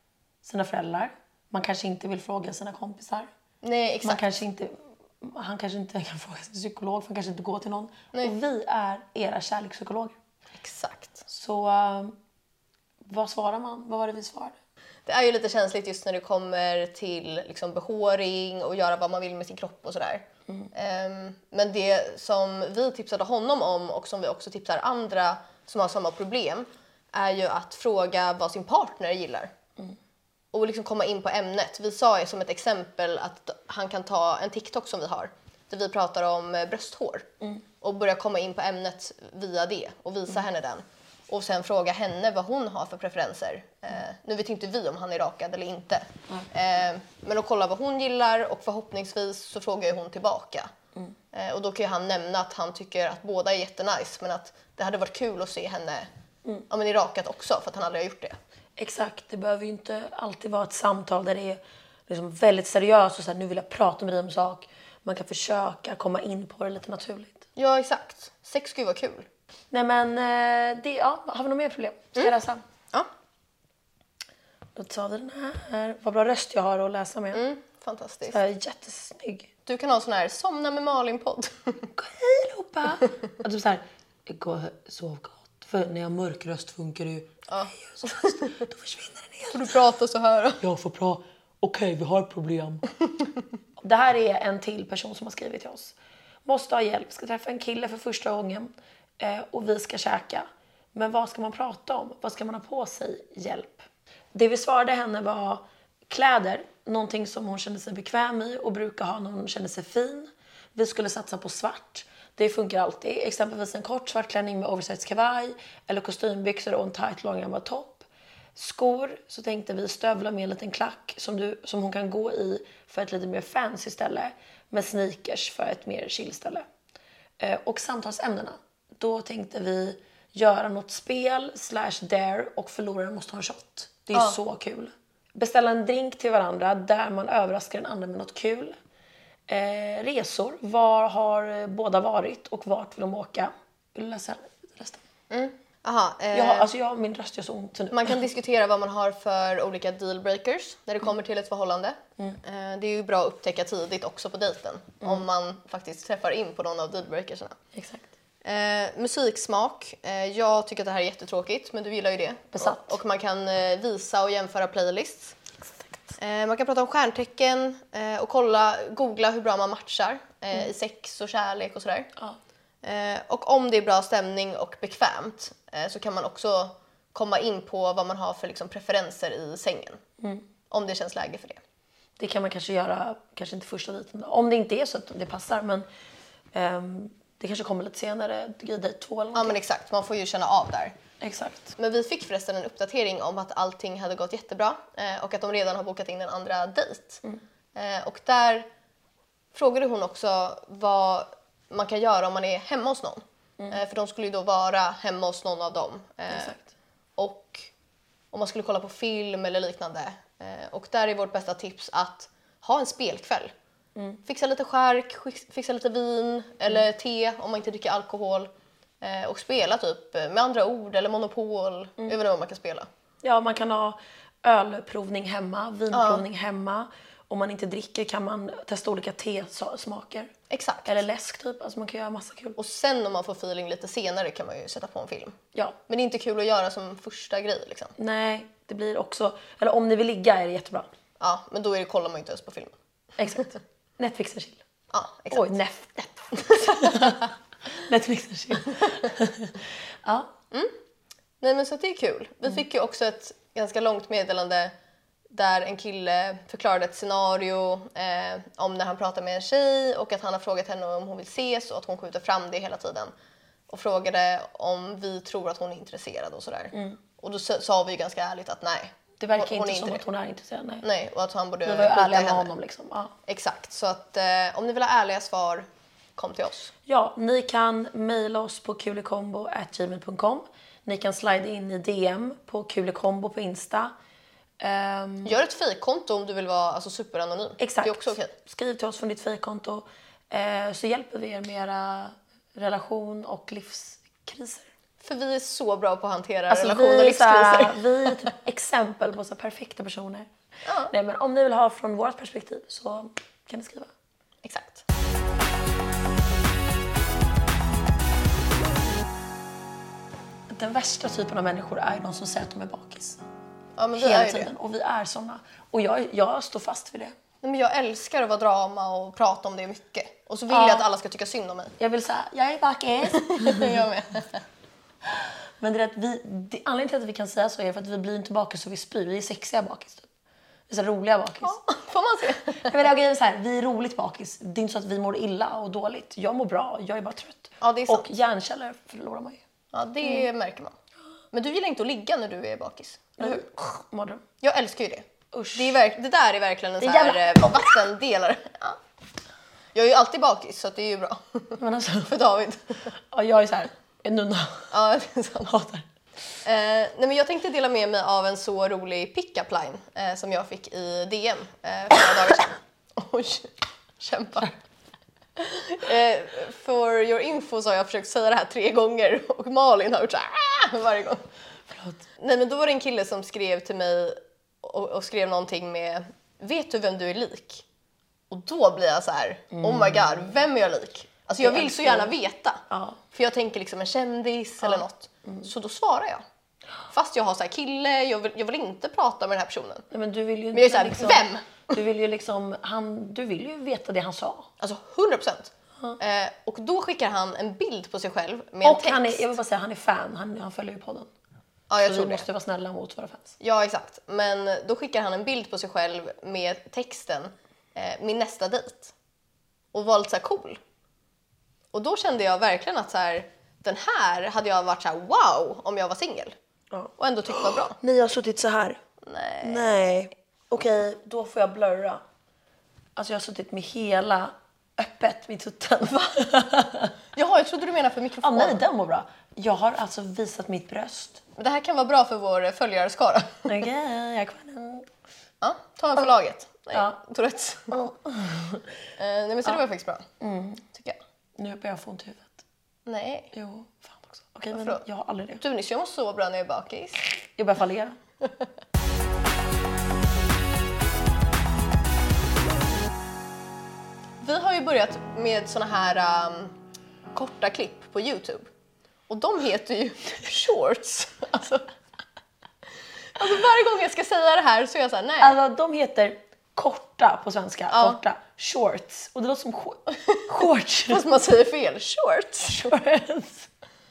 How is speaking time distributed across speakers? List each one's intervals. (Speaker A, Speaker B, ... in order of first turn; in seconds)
Speaker A: 0.4-3.3, 4.0-10.2, 11.3-12.2, 13.1-14.6, 58.8-67.5, 69.7-72.6, 74.8-77.4, 78.3-79.5, 82.0-89.7, 90.6-92.8, 93.8-126.7, 127.4-138.8, 139.5-145.0, 146.3-148.2, 157.7-158.1, 162.6-163.0, 180.2-180.5, 182.2-185.9, 186.5-189.6, 191.2-191.8, 206.3-206.7, 223.2-230.3, 230.9-232.6, 238.0-240.9, 243.2-244.6, 245.3-250.3, 266.7-267.0, 269.2-270.9, 271.6-273.1, 276.9-283.9, 284.6-285.4, 287.6-294.7, 296.5-300.3, 300.9-303.9, 310.5-313.2, 314.0-317.1, 320.5-320.9, 321.8-323.8, 325.1-330.1, 330.7-331.6, 332.5-339.4, 343.2-344.2, 345.3-345.8, 346.8-347.8, 351.6-352.1, 353.1-354.7, 355.4-355.9, 371.7-372.0, 379.5-380.3, 381.4-382.1, 382.7-383.0, 389.9-394.5, 398.6-401.1, 401.8-403.4, 416.7-418.8, 419.4-422.0, 423.0-426.9, 428.2-431.2, 433.4-434.9, 437.7-438.7, 440.2-440.6, 441.4-442.4, 443.3-445.4, 447.4-448.0, 465.2-471.1, 472.4-473.5
Speaker B: 3.6-4.3, 10.6-11.3, 15.1-29.5, 30.5-37.3, 37.8-50.7, 51.3-56.1, 56.7-58.4, 67.6-69.3, 77.3-78.4, 79.7-81.9, 87.5-88.5, 89.5-90.6, 134.1-134.4, 145.3-146.7, 147.9-157.6, 158.4-165.4, 166.2-172.1, 172.8-180.0, 180.7-181.6, 189.3-191.0, 191.8-197.2, 197.8-198.7, 199.5-206.6, 207.2-207.7, 208.3-213.5, 214.2-222.9, 225.9-226.2, 230.5-231.0, 232.6-235.4, 235.9-237.9, 241.2-242.8, 244.9-245.5, 246.5-247.2, 251.4-254.7, 255.3-263.1, 263.7-270.0, 270.8-272.5, 273.3-276.7, 285.2-288.3, 295.0-298.1, 300.6-300.9, 304.4-304.8, 313.8-314.5, 317.4-321.8, 323.1-324.4, 331.4-332.7, 337.6-338.1, 339.7-340.8, 341.3-343.4, 344.4-348.8, 349.8-352.8, 354.7-355.5, 356.4-364.6, 365.4-371.2, 372.2-377.6, 378.3-386.2, 386.9-389.9, 390.5-391.8, 394.6-399.4, 401.7-402.2, 403.4-408.9, 409.7-410.6, 411.7-416.4, 417.0-417.8, 419.0-419.9, 427.1-428.6, 431.4-433.5, 435.4-437.7, 439.0-440.1, 440.7-441.0, 442.9-443.3, 444.5-444.8, 445.4-447.0, 454.2-456.6, 457.1-458.5, 459.1-461.7, 463.1-465.4, 467.7-468.0, 470.9-472.6